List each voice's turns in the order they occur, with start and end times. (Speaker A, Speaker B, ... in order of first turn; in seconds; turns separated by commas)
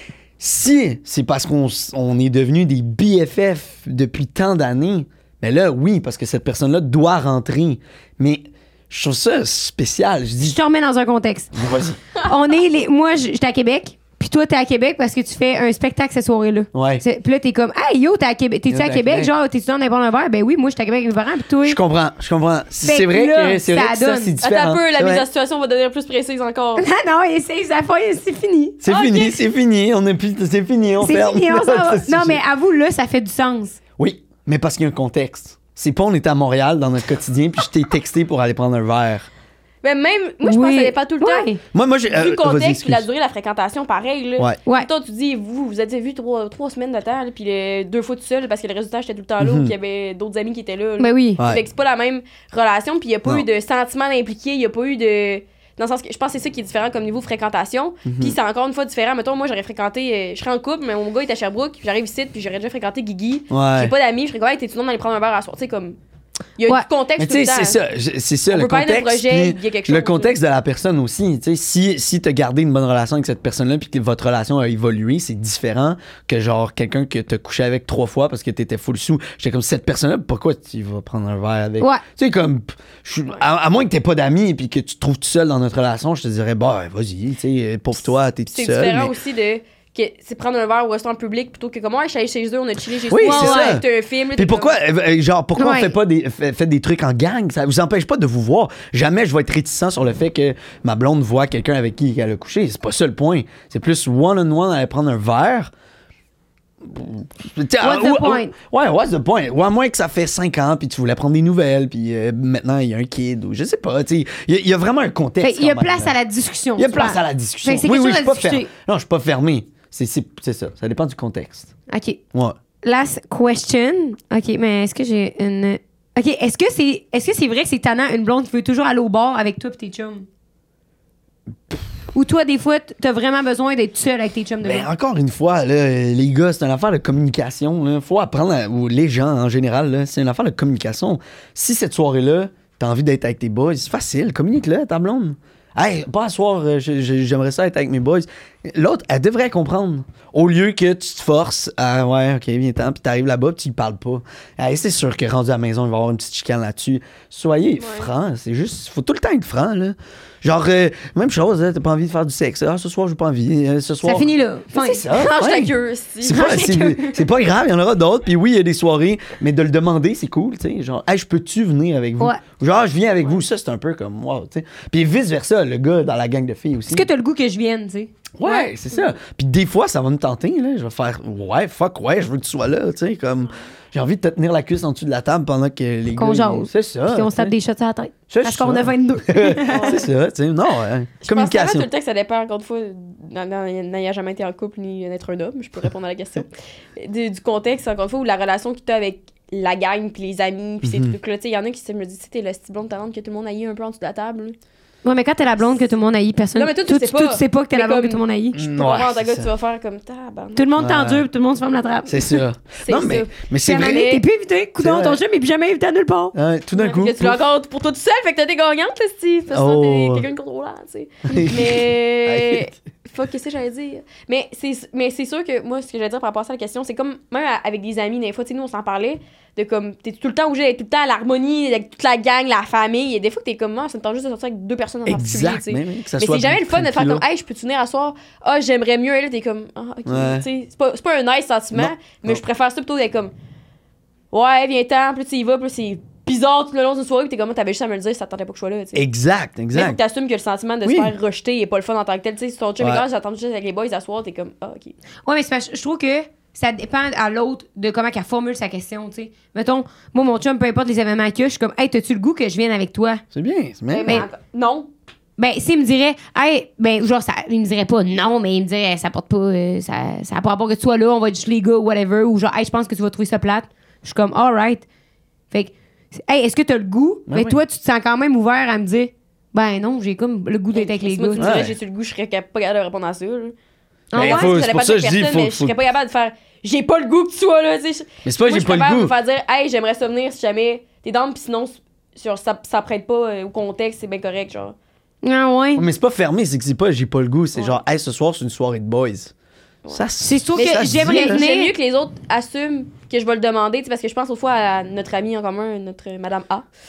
Speaker A: 0.4-10.6, Speaker B: 10.4-11.5, Speaker A: 11.6-12.0, Speaker B: 12.2-21.8, Speaker A: 16.7-17.0, Speaker A: 18.7-19.3, Speaker A: 21.6-25.2, Speaker B: 22.8-24.4, Speaker C: 24.4-26.9, Speaker B: 26.8-28.8, Speaker A: 28.8-32.4, Speaker C: 28.9-29.4, Speaker B: 31.0-33.8, Speaker A: 34.0-39.3, Speaker C: 39.8-41.5, Speaker B: 40.4-41.6, Speaker A: 41.7-43.1, Speaker C: 42.1-66.0, Speaker A: 49.4-49.7, Speaker B: 51.0-51.4, Speaker A: 58.0-58.4, Speaker A: 63.5-63.9, Speaker C: 66.6-67.8, Speaker A: 67.2-89.1, Speaker C: 68.5-70.4, Speaker C: 88.5-94.8, Speaker A: 93.1-105.7, Speaker B: 93.2-93.8, Speaker B: 95.6-96.0, Speaker A: 106.8-116.2, Speaker B: 107.8-108.5, Speaker B: 115.4-118.7, Speaker A: 116.8-121.7, Speaker B: 121.9-122.2, Speaker B: 122.8-130.3, Speaker B: 132.1-134.9, Speaker A: 134.6-177.1, Speaker C: 157.8-158.1, Speaker B: 164.0-165.0, Speaker C: 165.0-166.4, Speaker B: 166.3-167.0, Speaker B: 176.9-178.1, Speaker A: 178.4-187.5, Speaker C: 178.4-179.1, Speaker B: 186.1-190.1, Speaker A: 188.3-191.9, Speaker C: 189.7-190.1, Speaker C: 191.3-204.6, Speaker A: 200.8-201.2, Speaker B: 205.0-208.6, Speaker C: 206.6-210.7, Speaker A: 208.6-209.5, Speaker B: 210.6-212.4, Speaker A: 210.8-211.2, Speaker A: 212.1-214.1, Speaker C: 212.8-214.2, Speaker B: 213.6-216.3, Speaker A: 214.8-215.2, Speaker A: 216.3-217.4, Speaker C: 216.8-243.3, Speaker A: 219.5-220.3, Speaker A: 221.3-222.7, Speaker A: 235.1-237.2, Speaker A: 240.1-240.5, Speaker A: 241.7-242.4, Speaker C: 244.3-249.0, Speaker A: 248.9-250.0, Speaker C: 249.7-254.9, Speaker A: 250.9-251.1, Speaker B: 255.2-263.2, Speaker A: 263.3-264.2, Speaker C: 263.9-264.9, Speaker B: 265.4-274.8, Speaker B: 275.5-281.7, Speaker A: 277.3-277.6, Speaker C: 280.7-283.5, Speaker A: 281.4-281.8, Speaker B: 284.1-284.6, Speaker A: 284.1-285.8, Speaker C: 284.1-294.8, Speaker A: 288.2-289.1, Speaker B: 295.2-295.9, Speaker A: 295.8-299.3, Speaker C: 297.6-297.8, Speaker A: 299.9-301.5, Speaker B: 300.2-301.7, Speaker C: 300.6-306.7